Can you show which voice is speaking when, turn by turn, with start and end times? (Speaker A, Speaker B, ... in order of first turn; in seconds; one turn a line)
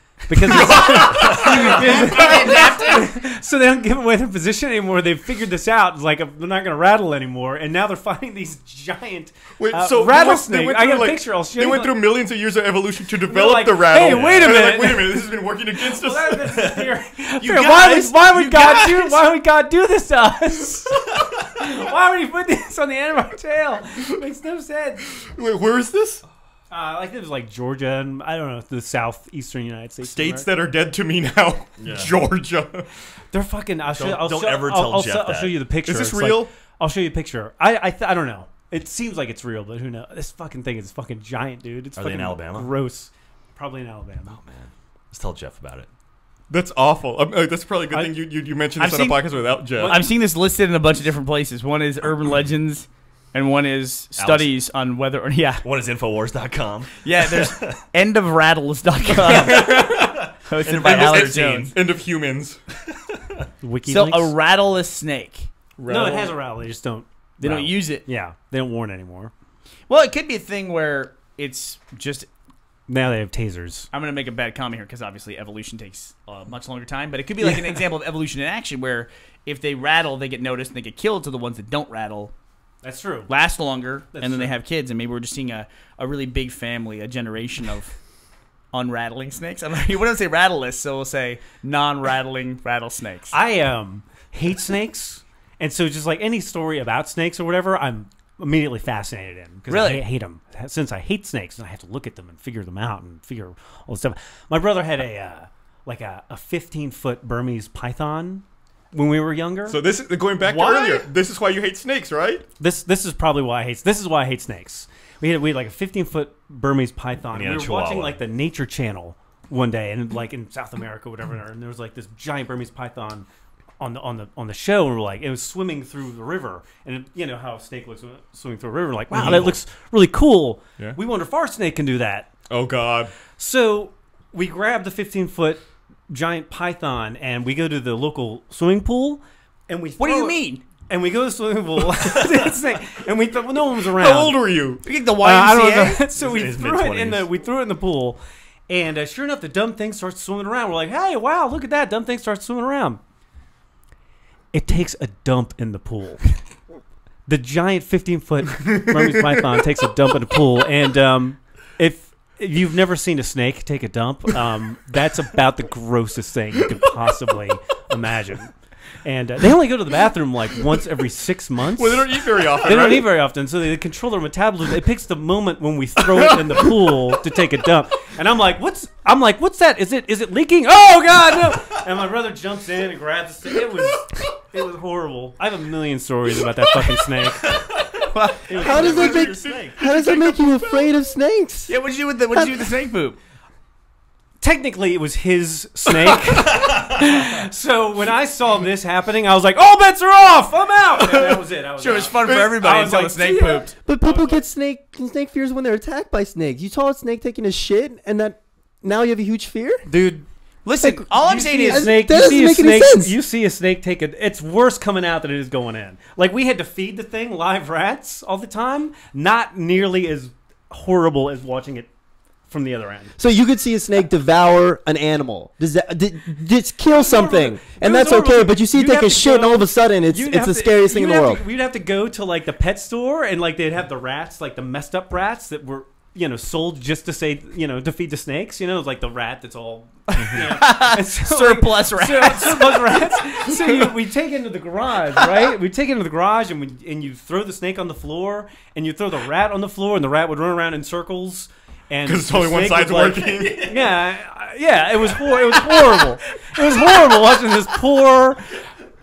Speaker A: 0.3-12.1
Speaker B: 0.4-2.7
Speaker C: 0.7-3.1
Speaker B: 9.6-16.8
Speaker A: 13.2-25.1
Speaker D: 17.4-17.9
Speaker C: 17.4-19.2
Speaker B: 25.2-26.2
Speaker A: 26.7-30.5
Speaker B: 30.0-32.9
Speaker D: 31.8-32.2
Speaker A: 33.3-44.4
Speaker D: 33.9-35.7
Speaker B: 35.8-36.5
Speaker D: 42.0-42.8
Speaker D: 44.3-45.9
Speaker B: 46.5-50.0
Speaker C: 48.8-49.2
Speaker A: 49.8-50.1
Speaker C: 49.8-55.6
Speaker D: 54.2-54.5
Speaker D: 55.6-57.8
Speaker C: 57.0-59.9
Speaker B: 59.2-62.6
Speaker C: 60.5-61.7
Speaker D: 60.6-61.7
Speaker D: 62.9-63.4
Speaker A: 63.6-64.3
Speaker C: 63.9-65.5
Speaker B: 65.8-66.4
Speaker A: 65.9-69.3
Speaker C: 67.4-68.0
Speaker C: 69.9-72.3
Speaker A: 72.9-73.9
Speaker C: 73.9-82.3
Speaker A: 77.4-77.8
Speaker A: 82.8-83.3
Speaker C: 83.3-87.9
Speaker A: 84.1-84.5
Speaker C: 88.7-93.3
Speaker A: 93.3-109.8
Speaker C: 99.7-100.0
Speaker B: 109.7-112.5
Speaker A: 110.4-111.1
Speaker A: 112.6-123.3
Speaker D: 117.3-118.2
Speaker A: 123.8-132.3
Speaker B: 129.1-129.6
Speaker B: 132.5-133.1
Speaker A: 133.4-144.4
Speaker C: 140.0-140.7
Speaker B: 144.0-144.8
Speaker C: 144.8-146.0
Speaker A: 145.2-148.2
Speaker D: 146.1-147.3
Speaker A: 148.7-153.0
Speaker A: 154.5-156.2
Speaker A: 157.3-168.5
Speaker B: 158.9-159.4
Speaker A: 169.0-187.6
Speaker B: 171.8-173.1
Speaker D: 187.5-189.8
Speaker C: 188.1-188.8
Speaker A: 188.5-189.3
Speaker E: 188.6-191.8
Speaker B: 189.0-190.4
Speaker C: 191.7-193.2
Speaker A: 194.4-204.4
Speaker D: 196.4-197.4
Speaker B: 201.0-201.3
Speaker C: 201.8-203.7
Speaker E: 203.8-209.9
Speaker A: 209.9-210.2
Speaker C: 210.7-211.9
Speaker A: 210.8-221.9
Speaker E: 211.6-213.2
Speaker A: 222.5-223.2
Speaker E: 223.2-231.4
Speaker A: 226.9-258.6
Speaker C: 240.1-243.1
Speaker B: 252.1-253.8